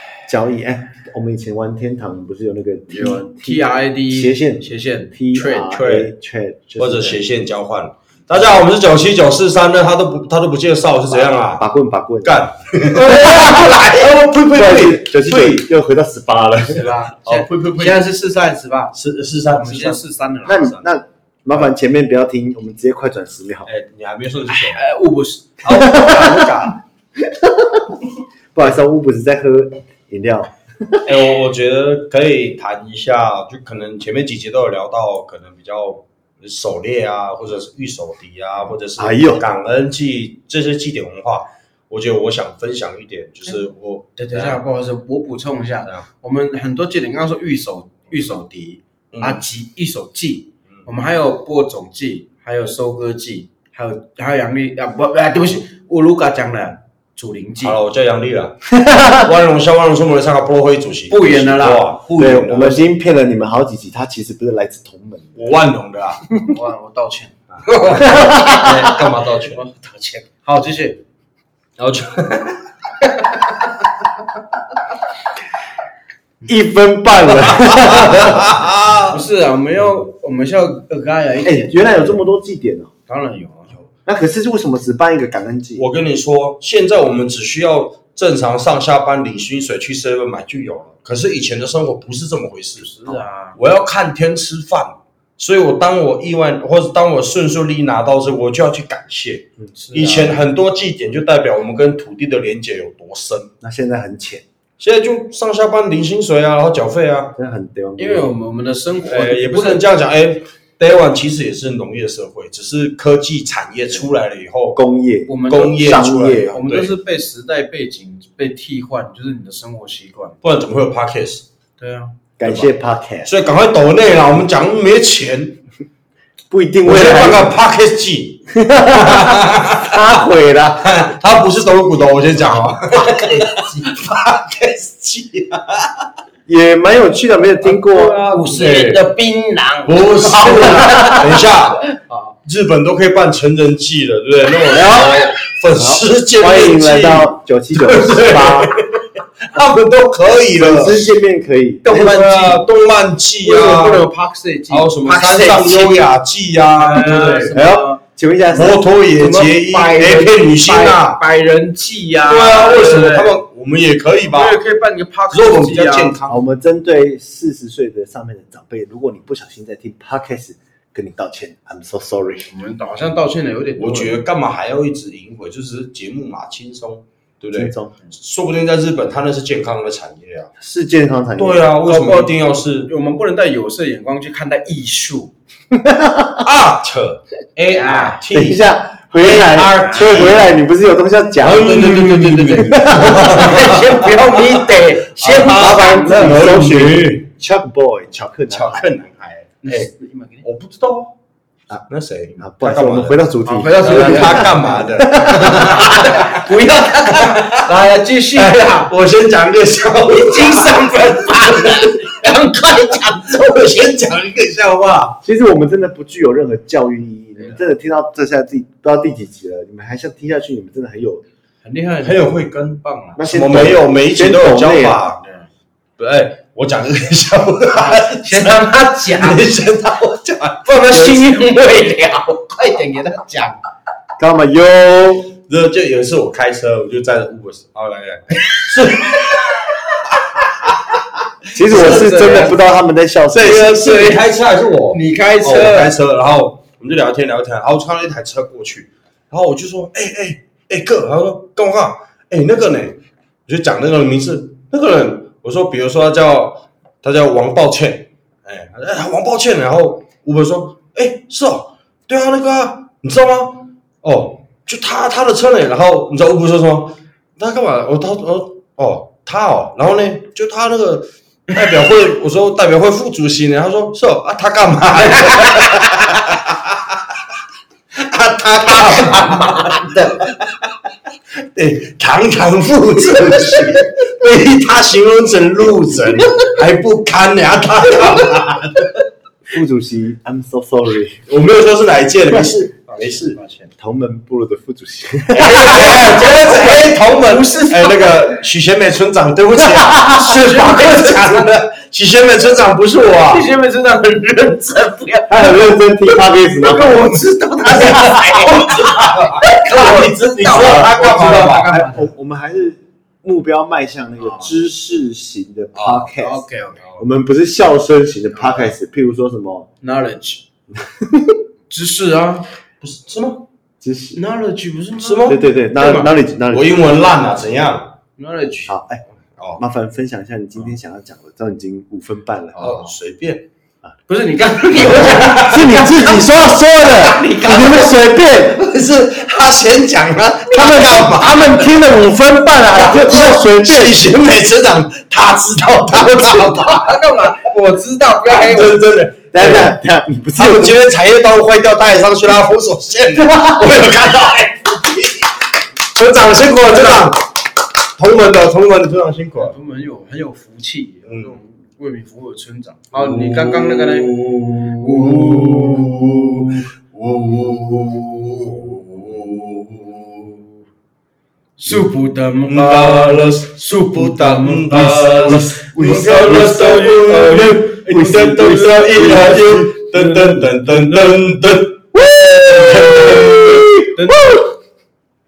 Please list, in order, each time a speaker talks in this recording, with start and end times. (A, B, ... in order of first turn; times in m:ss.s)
0:00.3-0:07.2 A
0:02.9-0:05.7 B
0:05.6-0:06.1 C
0:06.8-0:11.6 C
0:11.1-0:12.4 A
0:12.2-0:15.7 C
0:13.1-0:13.7 A
0:14.4-0:16.8 A
0:16.7-0:18.9 B
0:16.8-0:18.0 C
0:18.9-0:20.8 C
0:19.4-0:20.7 B
0:20.4-0:23.7 A
0:23.6-0:24.8 C
0:24.5-0:25.8 B
0:25.6-0:26.8 C
0:25.9-0:26.5 A
0:27.3-0:27.9 A
0:28.5-0:31.1 A
0:31.0-0:44.6 C
0:39.0-0:39.4 A
0:44.2-0:57.8 B
0:49.1-0:49.4 C
0:57.6-1:02.8 C
0:58.8-0:59.1 A
1:01.1-1:02.0 B
1:02.2-1:05.5 A
1:05.4-1:06.2 C
1:06.4-1:11.0 B
1:07.7-1:09.6 C
1:08.0-1:08.5 A
1:11.8-1:12.7 C
1:16.4-1:18.6 A
1:17.8-1:19.2 C
1:19.1-1:22.2 B
1:21.4-1:22.9 A
1:23.1-1:23.9 B
1:24.0-1:25.8 A
1:25.8-1:43.5 C
1:32.8-1:33.6 B
1:39.7-1:40.4 B
1:43.6-1:44.4 A
1:44.8-1:47.3 C
1:47.4-1:48.3 A
1:48.0-1:49.8 B
1:49.1-1:54.8 C
1:54.7-1:56.6 A
1:55.3-2:00.4 B
1:55.5-1:56.9 C
2:00.4-2:01.4 C
2:01.8-2:02.1 B
2:02.4-2:03.3 A
2:02.4-2:02.7 C
2:03.2-2:05.6 C
2:06.5-2:07.5 A
2:06.8-2:10.2 C
2:08.5-2:10.9 A
2:10.8-2:16.0 C
2:12.9-2:13.9 B
2:16.5-2:18.2 A
2:17.6-2:22.3 B
2:18.3-2:19.0 C
2:19.8-2:21.9 C
2:22.4-2:31.1 C
2:24.7-2:25.2 A
2:25.7-2:28.7 A
2:30.5-2:31.8 A
2:31.8-2:32.7 B
2:31.9-2:34.1 C
2:33.4-2:36.0 B
2:34.7-2:37.6 C
2:36.7-2:38.0 B
2:37.5-2:38.8 A
2:38.5-2:41.2 C
2:39.1-2:43.4 B
2:42.2-2:44.6 C
2:44.2-2:46.2 B
2:45.3-2:46.4 C
2:46.3-2:52.5 A
2:52.5-2:54.2 B
2:53.8-3:00.5 C
2:57.5-2:57.9 A
3:00.6-3:01.6 A
3:01.4-3:02.9 C
3:01.8-3:05.3 B
3:05.7-3:06.4 A
3:06.4-3:08.6 C
3:07.7-3:08.2 B
3:08.3-3:13.4 A
3:09.2-3:10.5 C
3:09.7-3:10.3 B
3:11.4-3:17.3 C
3:12.1-3:16.4 B
3:16.0-3:18.9 A
3:18.5-3:19.9 C
3:19.6-3:20.4 B
3:20.4-3:21.1 C
3:21.9-3:23.2 C
3:22.4-3:25.4 A
3:23.4-3:28.9 B
3:23.8-3:27.6 C
3:28.4-3:32.0 C
3:30.0-3:33.8 B
3:33.2-3:35.2 C
3:35.2-3:41.2 A
3:37.4-3:37.6 B
3:41.6-3:43.2 B
3:42.0-3:45.2 C
3:43.2-3:45.0 A
3:45.2-3:45.5 B
3:46.0-3:51.0 C
3:47.7-3:49.5 B
3:50.6-3:53.6 B
3:50.9-3:51.2 A
3:54.2-3:55.3 A
3:55.4-3:59.8 C
4:00.3-4:00.7 C
4:01.5-4:03.8 A
4:01.6-4:02.6 B
4:01.7-4:02.5 C
4:03.3-4:36.8 C
4:03.7-4:04.2 B
4:04.9-4:05.9 B
4:35.0-4:36.0 B
4:38.0-4:40.6 C
4:38.7-4:40.2 B
4:41.5-4:48.9 C
4:49.5-4:51.2 A
4:51.3-4:53.4 C
4:52.8-4:53.7 B
4:53.8-4:56.1 A
4:55.4-5:03.4 C
4:55.4-4:58.4 B
5:00.0-5:01.4 B
5:03.0-5:05.6 B
5:05.3-5:07.0 A
5:06.6-5:12.1 B
5:07.0-5:11.7 C
5:10.4-5:16.4 A
5:14.2-5:14.5 B
5:15.7-5:16.1 C
5:16.2-5:16.8 B
5:17.0-5:19.7 A
5:18.3-5:18.7 B
5:19.8-5:20.4 B
5:20.8-5:21.3 A
5:21.7-5:22.5 B
5:22.8-5:23.4 C
5:23.8-5:24.2 A
5:24.1-5:26.1 B
5:25.0-5:25.4 C
5:25.3-5:26.7 A
5:26.5-5:28.0 C
5:28.2-5:28.8 B
5:28.7-5:29.0 A
5:29.6-5:32.8 A
5:32.6-5:32.9 B
5:32.6-5:33.4 C
5:34.1-5:36.2 B
5:34.9-5:36.2 C
5:35.4-5:38.6 A
5:36.8-5:38.0 B
5:36.9-5:37.7 C
5:38.4-5:41.7 C
5:40.5-5:44.0 A
5:42.7-5:46.9 C
5:46.0-5:48.8 B
5:48.2-5:49.8 C
5:49.3-5:50.8 A
5:50.4-5:55.2 C
5:55.9-5:57.3 C
5:58.0-5:59.5 C
5:59.4-6:04.2 B
6:01.0-6:01.3 C
6:02.9-6:10.4 C
6:04.8-6:05.8 B
6:11.6-6:21.2 B
6:12.5-6:23.7 C
6:15.9-6:16.6 A
6:22.7-6:23.7 A
6:23.9-6:24.5 B